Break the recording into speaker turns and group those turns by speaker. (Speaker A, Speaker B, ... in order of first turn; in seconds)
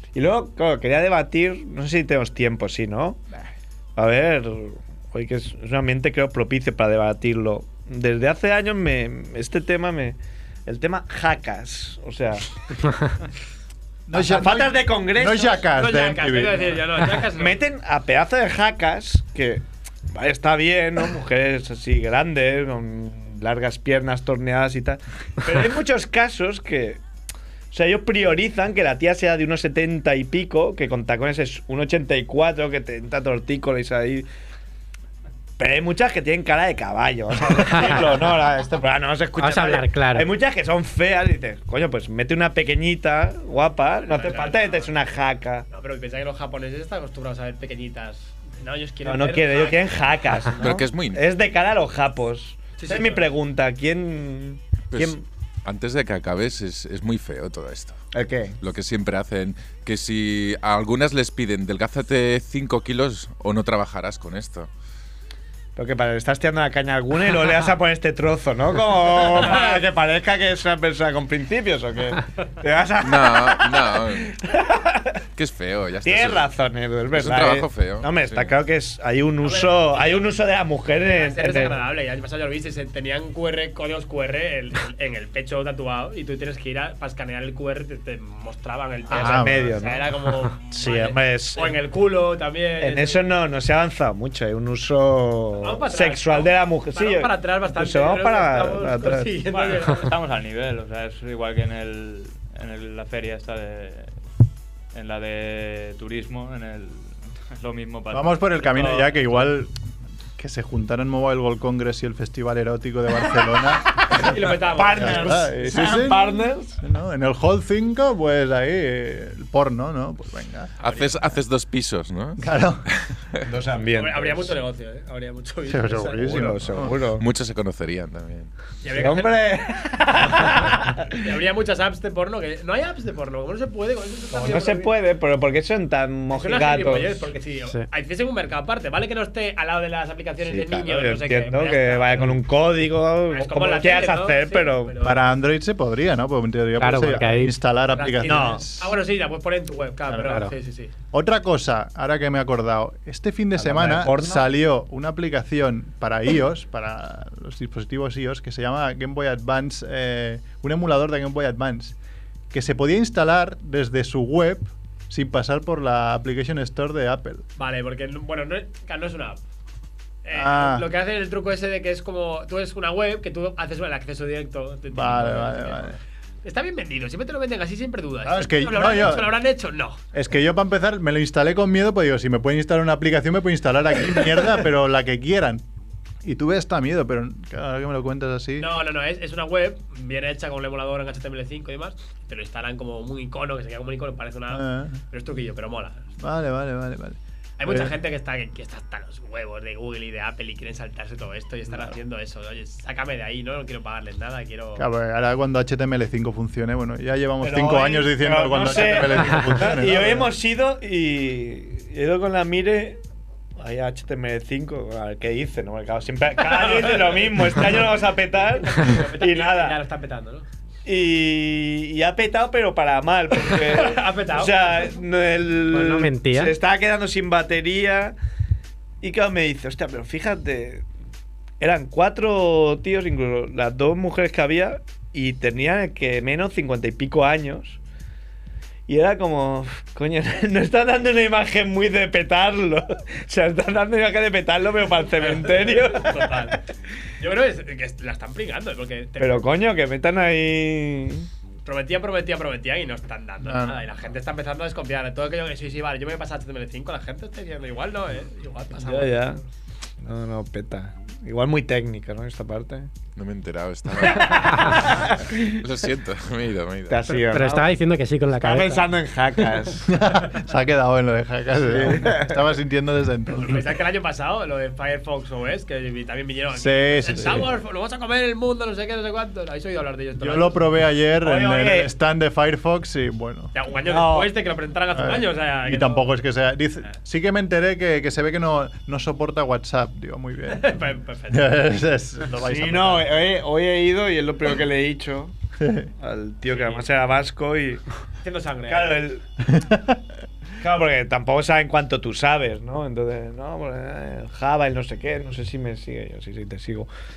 Speaker A: 0.1-3.2, 4.0-12.5, 14.1-15.6, 17.3-27.0, 27.7-34.3, 35.6-45.6, 49.0-55.2, 58.1-58.6, 65.8-75.1, 76.0-81.8, 89.1-90.1, 90.7-91.8, 92.8-99.5, 114.2-116.8, 123.5-124.5, 126.2-127.2, 128.9-131.1, 134.3-137.3, 140.5-145.0, 148.2-148.6, 153.6-154.5, 207.4-213.0, 213.6-219.8, 220.8-228.1, 229.0-230.8, 231.6-237.8, 238.9-246.5, 249.2-251.3, 258.8-259.4, 260.0-262.9, 264.2-265.6, 266.9-267.8, 268.4-269.9, 271.7-272.3, 281.2-281.9, 283.9-284.3, 292.4-295.3, 296.0-297.8, 298.7-299.2, 300.6-306.9
Speaker B: 14.1-16.8, 89.1-89.7, 108.1-109.7, 110.4-114.4, 114.9-120.7, 122.4-122.9, 125.7-127.0, 145.0-148.9, 150.1-150.3, 151.1-161.9, 162.5-167.4, 170.3-170.9, 174.9-176.0, 178.2-179.3, 180.1-185.6, 186.2-188.7, 194.5-195.0, 196.2-197.9, 204.8-210.3, 253.4-253.8, 269.9-273.6, 276.5-277.5, 280.2-283.5, 284.9-290.7, 291.3-293.1, 295.6-295.9, 299.5-300.0
Speaker C: 15.7-17.6, 44.0-44.9, 45.7-50.7, 52.8-53.3, 69.3-69.8, 79.4-80.3, 81.0-93.4, 95.6-100.1, 114.1-115.5, 120.8-121.1, 123.9-126.5, 128.8-129.6, 130.3-134.9, 136.3-142.4, 143.3-145.2, 147.9-150.9, 167.6-169.4, 170.2-180.0, 188.6-196.1, 197.6-204.8, 216.4-220.4, 223.5-225.0, 245.1-246.6, 247.2-249.5, 251.6-259.4, 273.3-280.6, 283.5-286.1, 290.5-291.8, 296.4-297.0, 298.2-299.1
Speaker D: 39.4-40.3, 146.8-147.6, 225.7-226.5, 267.3-268.9
Speaker E: 50.6-51.2, 54.9-58.0, 58.6-64.7, 73.0-74.3, 75.3-76.5, 77.1-78.5, 120.8-122.5, 127.2-128.5, 263.1-267.1
Speaker F: 99.5-104.1, 104.9-109.5